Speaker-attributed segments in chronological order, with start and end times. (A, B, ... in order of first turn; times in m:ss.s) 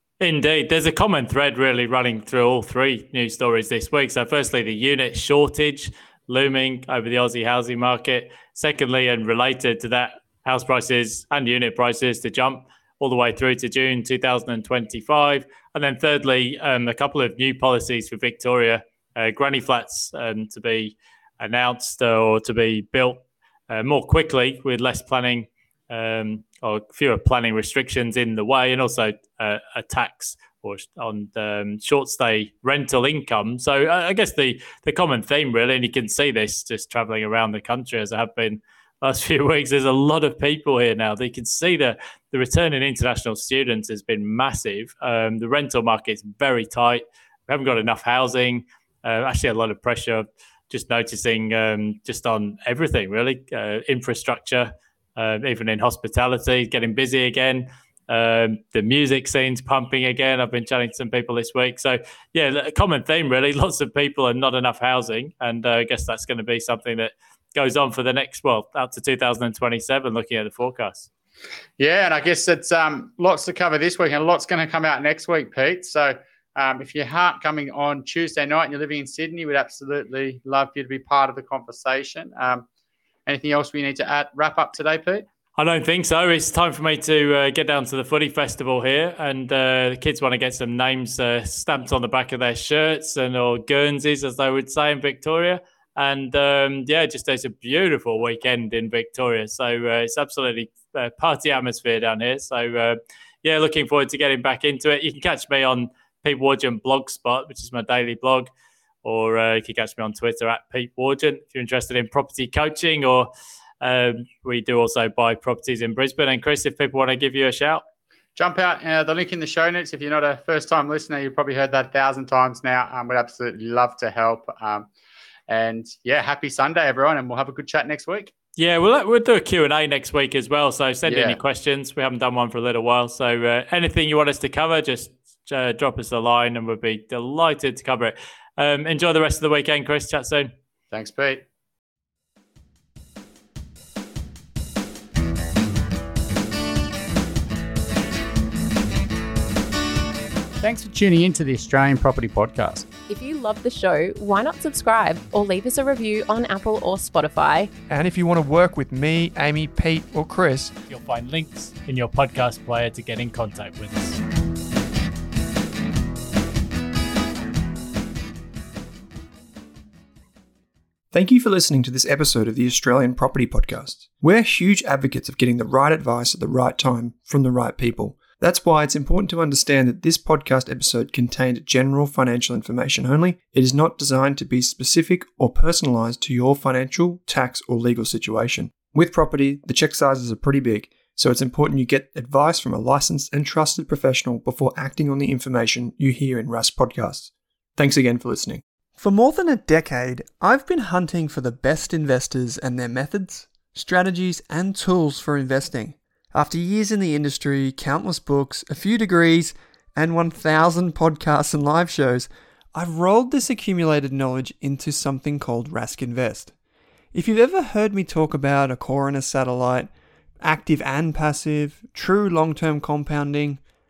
0:00.2-1:11.1 A
1:11.8-1:22.6 B
1:23.2-1:25.2 B
1:25.6-1:48.5 A
1:49.0-1:53.3 A
1:53.8-1:57.8 A
1:58.4-2:04.9 B
2:05.5-2:08.3 B
2:08.6-2:20.5 A
2:11.1-2:11.4 B
2:20.9-2:21.4 B
2:30.6-2:32.9 B
2:33.1-2:37.7 C
2:37.9-2:40.7 D
2:40.9-2:44.2 A
2:51.1-3:36.5 D
3:37.1-3:39.9 D
3:40.4-3:43.6 D